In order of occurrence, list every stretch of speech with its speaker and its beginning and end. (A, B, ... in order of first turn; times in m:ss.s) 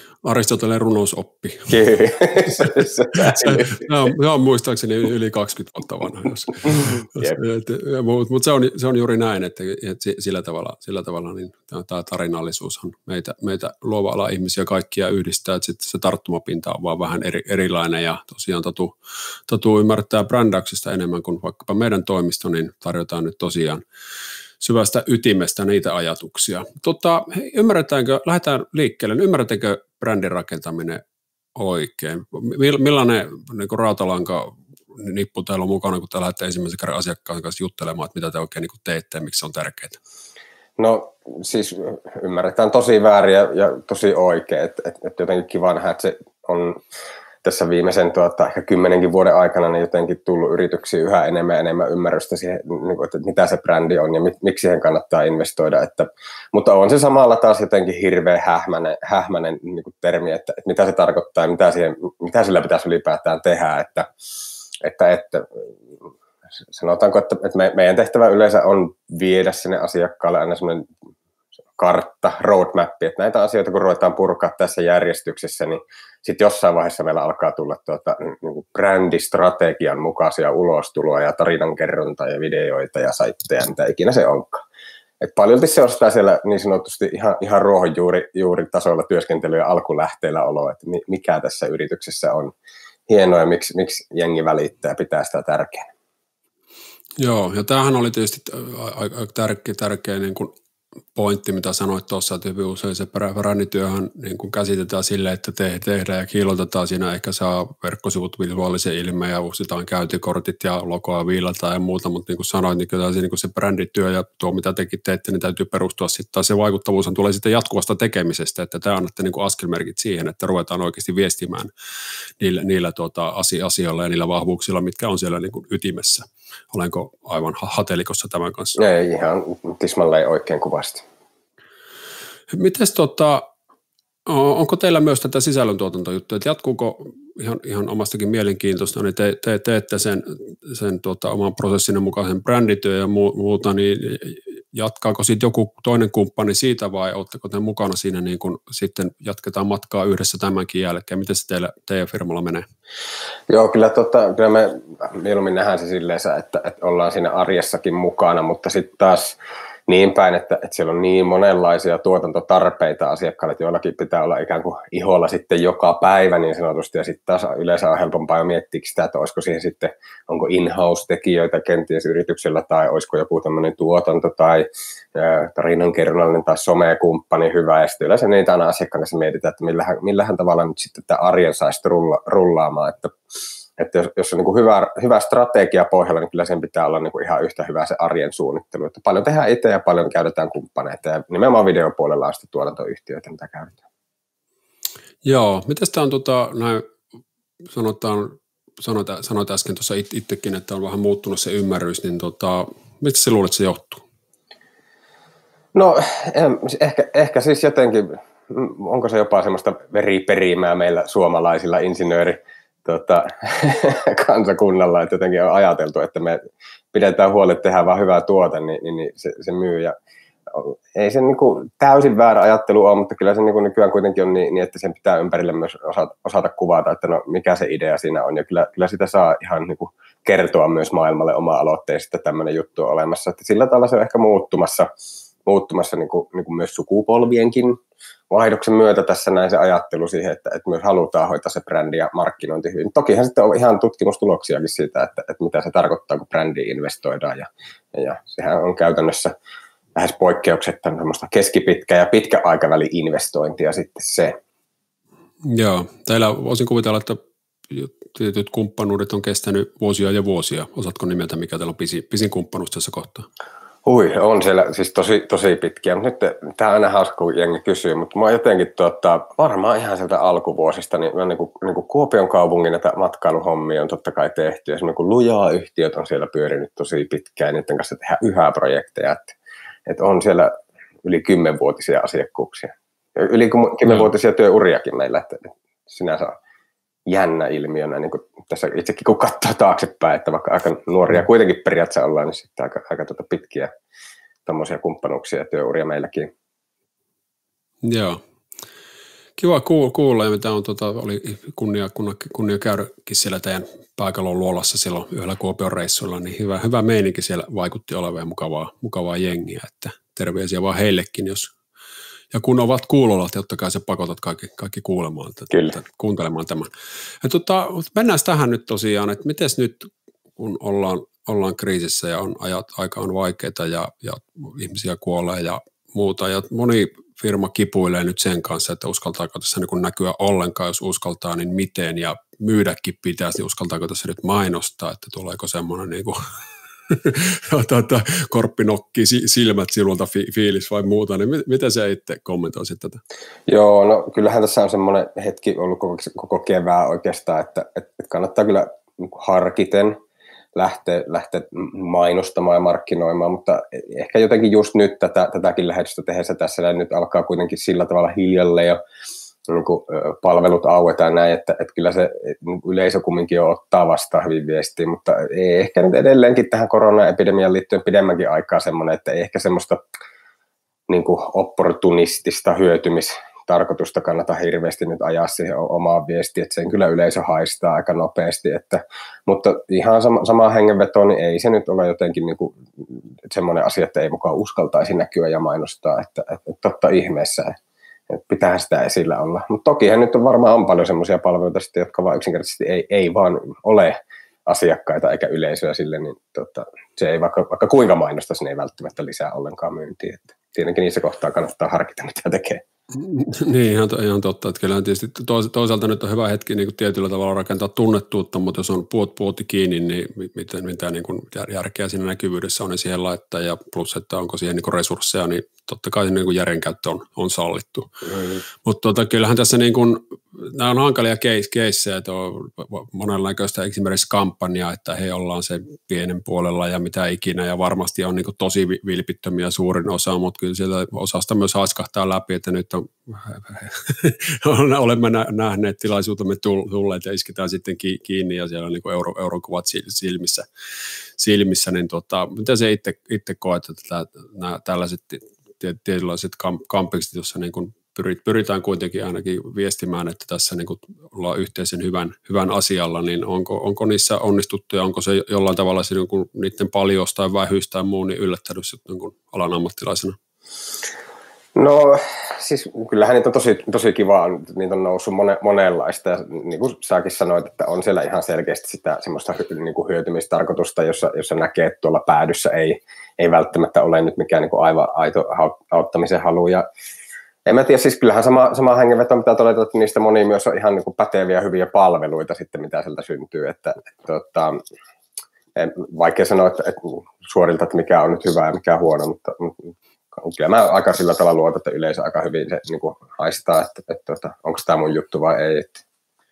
0:00.2-0:19.0 A
0:01.7-0:03.9 B
0:06.6-0:07.4 B
0:19.5-0:23.8 A
0:24.6-0:31.0 A
0:31.6-0:40.0 A
0:40.8-0:46.8 B
0:47.4-1:04.1 B
1:04.8-1:06.1 B
1:06.7-1:10.9 B
1:11.8-1:24.6 B
1:25.2-1:32.5 B
1:33.1-1:35.9 B
1:37.2-1:40.5 A
1:41.2-2:01.7 A
2:02.4-2:08.8 A
2:08.8-2:11.0 B
2:12.5-2:13.5 A
2:14.3-2:32.7 A
2:33.5-2:39.4 B
2:39.9-3:03.1 B
3:03.8-3:13.8 B
3:15.2-3:16.9 A
3:17.7-3:24.0 A
3:25.7-3:36.4 B
3:36.9-3:40.0 B
3:40.5-3:54.9 B
3:55.5-3:57.8 B
3:58.3-4:09.3 B
4:10.0-4:14.4 B
4:15.4-4:23.3 A
4:23.8-4:39.4 B
4:39.9-4:40.5 B
4:41.0-4:46.4 B
4:47.1-4:53.7 B
4:54.5-4:56.3 B
4:57.8-4:58.2 A
4:59.4-5:11.5 A
5:12.3-5:16.7 A
5:17.2-5:36.2 A
5:36.9-5:43.0 A
5:43.5-5:50.0 B
5:50.6-5:58.8 B
5:59.5-6:09.8 B
6:10.9-6:27.6 B
6:28.1-6:42.6 B
6:42.9-6:58.0 A
6:58.1-6:58.4 B
6:58.5-7:20.5 A
7:21.2-7:40.2 A
7:41.6-7:56.7 B
7:57.5-8:04.6 B
8:05.6-8:15.8 B